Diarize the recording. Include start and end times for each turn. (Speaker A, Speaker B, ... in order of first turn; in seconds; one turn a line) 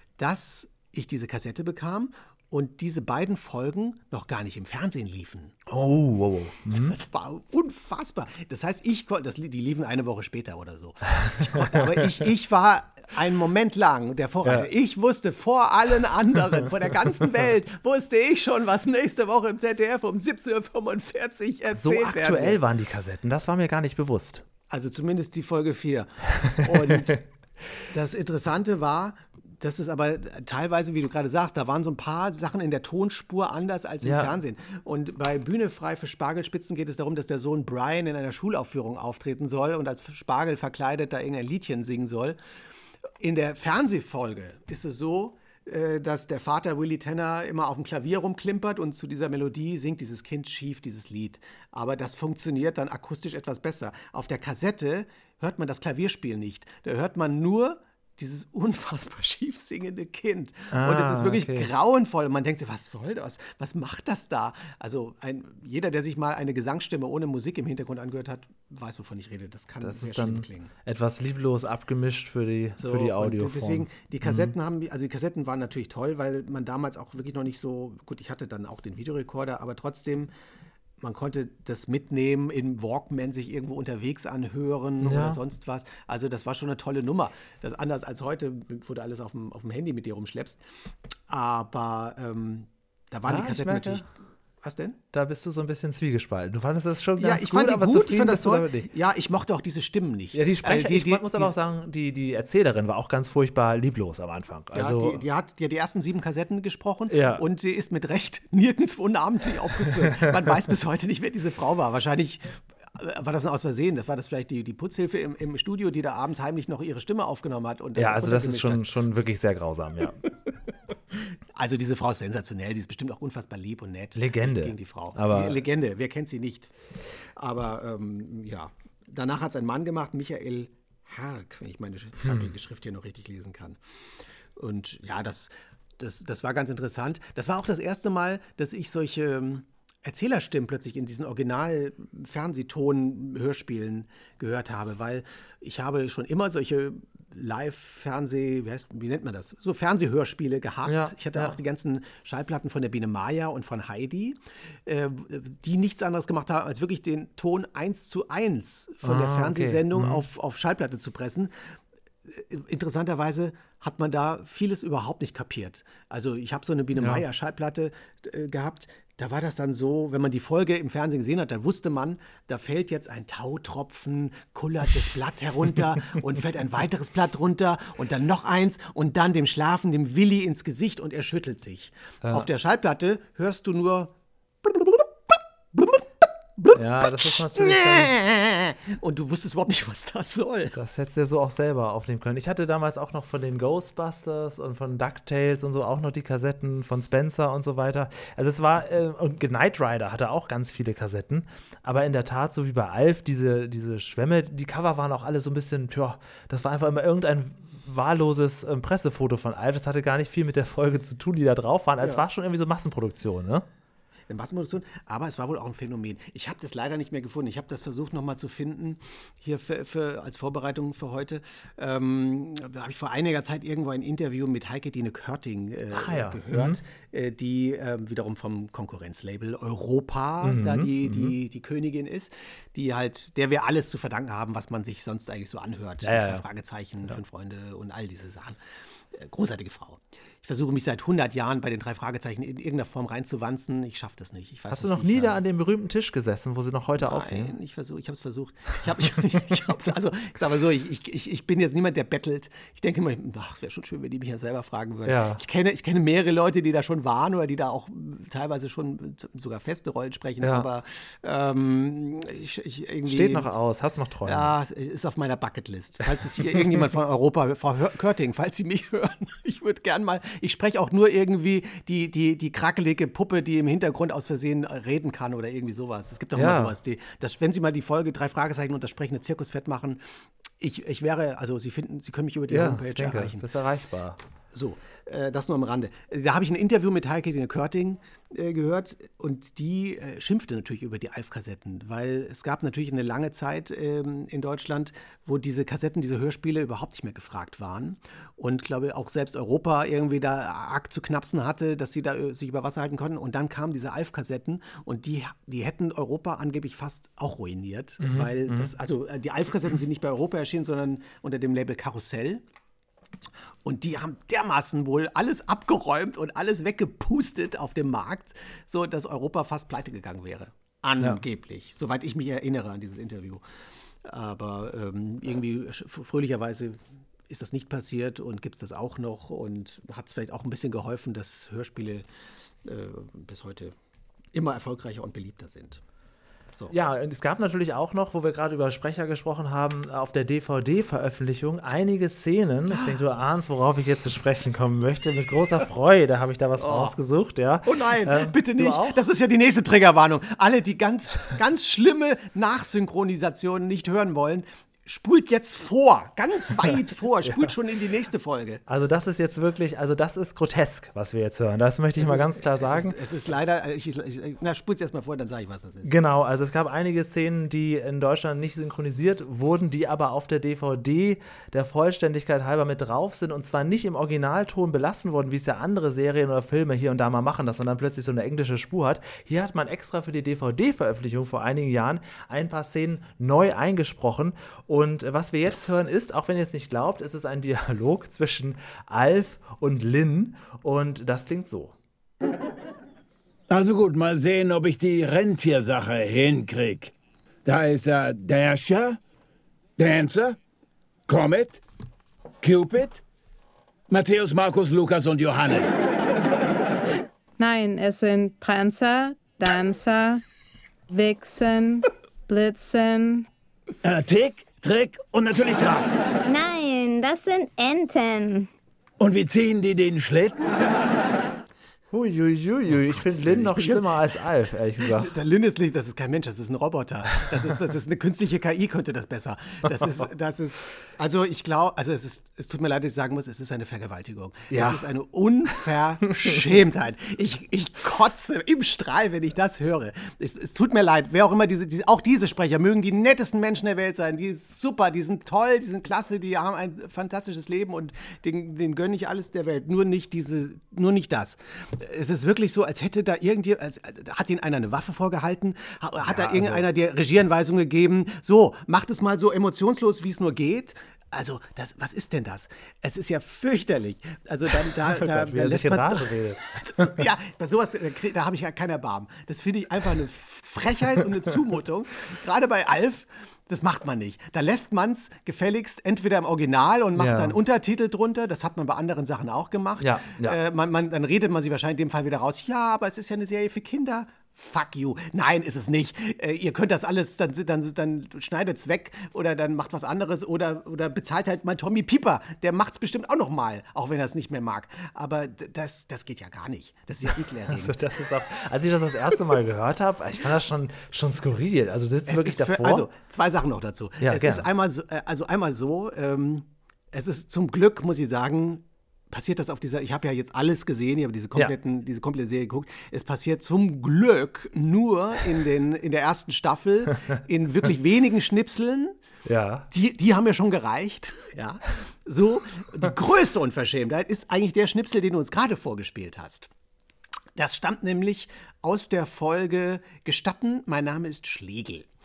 Speaker A: 0.2-5.6
Speaker B: 5.7-6.9
Speaker A: 6.7-22.6
Speaker B: 11.3-12.2
Speaker B: 14.4-14.7
Speaker B: 21.8-24.4
Speaker A: 24.7-27.2
Speaker B: 26.6-27.2
Speaker A: 27.9-42.4
Speaker B: 34.0-34.4
Speaker A: 43.2-70.7
Speaker B: 60.7-61.7
Speaker B: 69.8-74.5
Speaker A: 72.8-80.3
Speaker A: 81.0-90.6
Speaker B: 85.0-85.4
Speaker A: 91.3-94.0
Speaker B: 93.3-94.0
Speaker A: 94.6-95.0
Speaker B: 95.1-98.9
Speaker A: 97.2-101.5
Speaker B: 100.3-105.2
Speaker A: 104.7-118.9
Speaker B: 107.1-107.4
Speaker B: 110.1-110.3
Speaker B: 118.0-120.2
Speaker A: 121.5-126.7
Speaker B: 124.2-125.6
Speaker A: 127.4-133.8
Speaker B: 132.2-132.5
Speaker A: 134.6-190.8
Speaker B: 150.9-151.6
Speaker B: 159.0-160.2
Speaker B: 167.0-167.2
Speaker B: 186.8-188.1
Speaker B: 190.8-213.7
Speaker A: 214.3-238.6
Speaker B: 225.9-226.8
Speaker B: 230.4-231.3
Speaker B: 236.0-236.4
Speaker A: 239.1-245.4
Speaker B: 244.7-247.6
Speaker A: 247.0-263.5
Speaker B: 255.1-255.4
Speaker B: 260.4-260.7
Speaker B: 263.1-264.5
Speaker A: 264.2-280.0
Speaker B: 276.4-276.8
Speaker A: 280.6-283.5
Speaker B: 282.5-284.2
Speaker A: 284.5-312.4
Speaker B: 308.0-308.7
Speaker A: 313.6-323.4
Speaker A: 324.0-332.1
Speaker A: 332.6-333.8
Speaker A: 334.3-335.8
Speaker B: 336.7-349.0
Speaker A: 346.6-346.9
Speaker A: 347.6-358.6
Speaker B: 358.7-363.0
Speaker A: 362.0-365.9
Speaker B: 365.9-391.8
Speaker C: 393.5-396.9
Speaker C: 397.4-399.0
Speaker C: 399.8-400.4
Speaker C: 401.1-401.6
Speaker C: 402.4-403.0
Speaker C: 403.9-405.9
Speaker D: 407.4-410.2
Speaker D: 410.9-413.3
Speaker C: 413.8-416.0
Speaker E: 416.2-418.5
Speaker C: 419.0-420.6
Speaker B: 421.9-425.1
Speaker A: 422.9-424.2
Speaker A: 424.8-497.8
Speaker B: 434.5-434.9
Speaker B: 456.0-456.7
Speaker B: 464.9-467.0
Speaker B: 477.0-477.4
Speaker B: 479.8-480.4
Speaker B: 497.5-502.9
Speaker A: 502.1-519.0
Speaker B: 504.0-504.5
Speaker B: 519.3-519.7
Speaker A: 519.7-526.5
Speaker A: 527.4-531.9